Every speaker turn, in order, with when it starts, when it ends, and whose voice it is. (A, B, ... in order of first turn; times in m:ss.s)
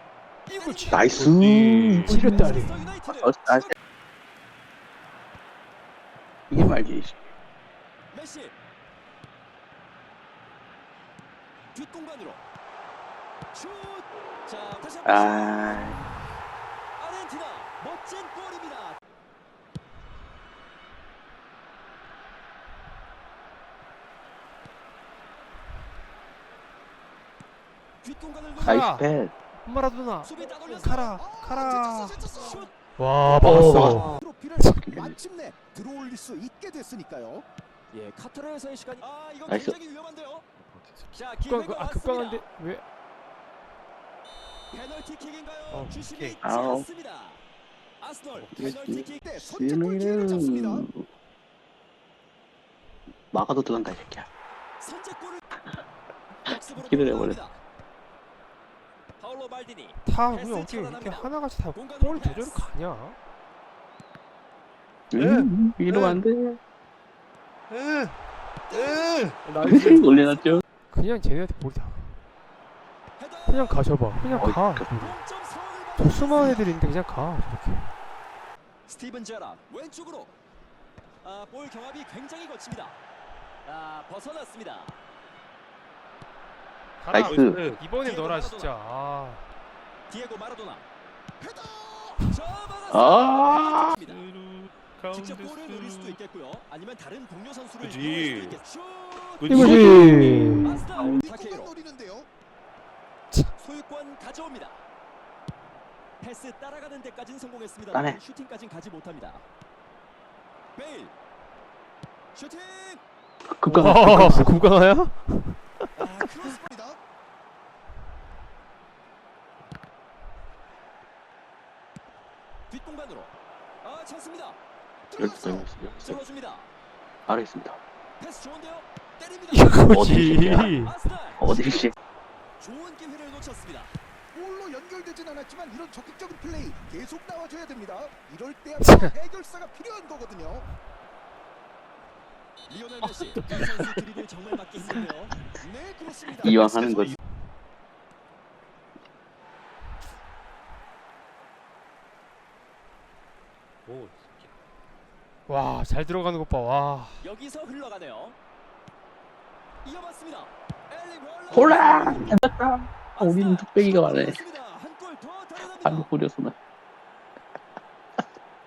0:00.5-0:01.1 A
0:00.5-0:01.1 B
0:00.9-0:03.7 C
0:01.1-0:02.2 D
0:02.1-0:02.9 B
0:02.1-0:03.7 A
0:06.5-0:07.2 C
0:08.1-0:08.5 A
0:11.7-0:12.4 A
0:13.5-0:16.0 A
0:15.0-0:16.0 C
0:17.0-0:19.0 A
0:28.0-0:28.9 A
0:28.6-0:29.0 B
0:28.6-0:29.3 C
0:29.6-0:32.4 B
0:30.2-0:31.2 A
0:31.2-0:32.7 E
0:32.4-0:32.7 A
0:33.0-0:34.9 B
0:33.3-0:34.1 C
0:33.4-0:37.4 E
0:34.8-0:35.2 C
0:37.9-0:40.5 A
0:39.5-0:39.8 C
0:40.6-0:41.2 D
0:41.1-0:42.4 A
0:41.4-0:42.8 B
0:44.7-0:47.4 A
0:45.7-0:46.4 B
0:46.4-0:46.9 C
0:48.0-0:49.3 A
0:48.3-0:48.6 D
0:48.5-0:51.0 C
0:49.2-0:50.9 E
0:53.3-0:54.3 C
0:54.8-0:55.4 A
0:56.4-0:57.6 A
0:56.5-0:57.4 C
0:59.2-1:02.7 A
1:00.0-1:03.2 B
1:05.1-1:06.6 C
1:05.2-1:06.2 D
1:07.7-1:08.2 D
1:08.7-1:10.4 D
1:08.7-1:09.8 A
1:09.6-1:10.6 C
1:10.9-1:12.2 B
1:13.2-1:13.9 A
1:13.5-1:15.2 B
1:14.2-1:14.5 D
1:14.4-1:14.9 C
1:15.0-1:16.7 A
1:16.0-1:17.9 B
1:18.9-1:20.3 A
1:21.2-1:23.0 A
1:23.6-1:25.0 A
1:27.0-1:29.5 B
1:27.1-1:27.6 C
1:27.1-1:27.8 D
1:28.0-1:28.7 A
1:30.1-1:30.9 A
1:31.4-1:32.3 E
1:32.3-1:34.2 A
1:32.9-1:34.0 C
1:34.0-1:36.2 D
1:35.1-1:41.7 A
1:37.8-1:38.6 D
1:39.4-1:41.2 D
1:39.5-1:40.8 B
1:41.1-1:42.3 E
1:43.6-1:44.8 A
1:46.2-1:49.4 A
1:47.9-1:48.2 C
1:50.8-1:51.1 A
1:52.4-1:53.0 A
1:53.5-1:54.6 C
1:53.7-1:55.9 B
1:56.0-1:56.6 A
1:56.5-1:57.0 E
2:02.7-2:03.3 A
2:03.8-2:04.6 A
2:05.1-2:05.7 E
2:05.2-2:06.2 C
2:06.0-2:06.7 A
2:07.3-2:07.8 C
2:08.2-2:11.6 A
2:09.5-2:11.1 B
2:09.9-2:10.7 C
2:11.4-2:11.9 C
2:12.6-2:14.0 A
2:14.3-2:20.7 E
2:18.8-2:19.1 B
2:22.7-2:25.4 A
2:23.0-2:24.0 D
2:25.6-2:27.2 E
2:26.4-2:27.2 C
2:33.9-2:34.5 D
2:35.5-2:37.3 B
2:37.2-2:38.4 A
2:39.8-2:42.4 A
2:41.5-2:44.4 C
2:43.2-2:46.1 A
2:45.7-2:46.6 C